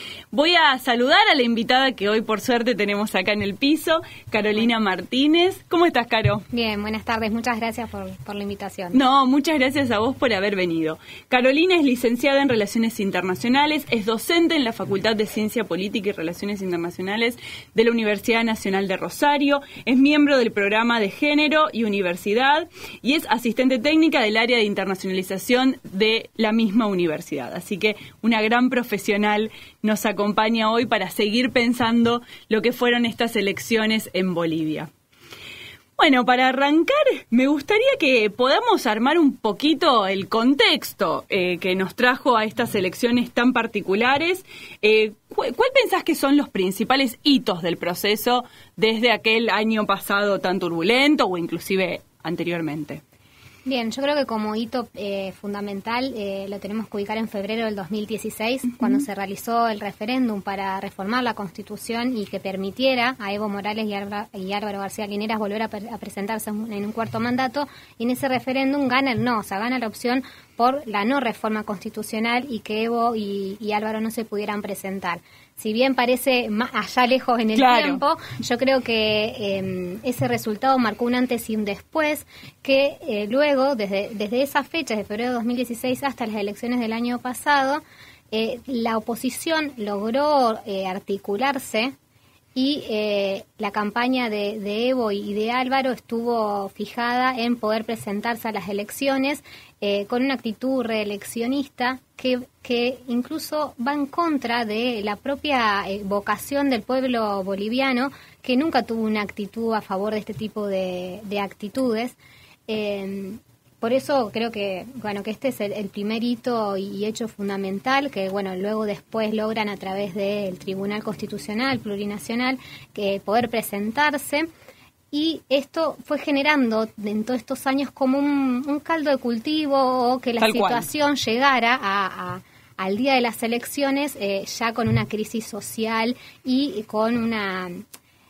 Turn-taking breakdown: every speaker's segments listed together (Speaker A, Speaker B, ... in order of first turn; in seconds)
Speaker A: 0.3-6.5, 8.9-34.9, 36.0-53.0, 77.5-78.0, 130.4-130.9
Speaker B: 6.5-9.0, 53.6-91.9, 92.5-112.2, 112.7-124.5, 125.1-137.8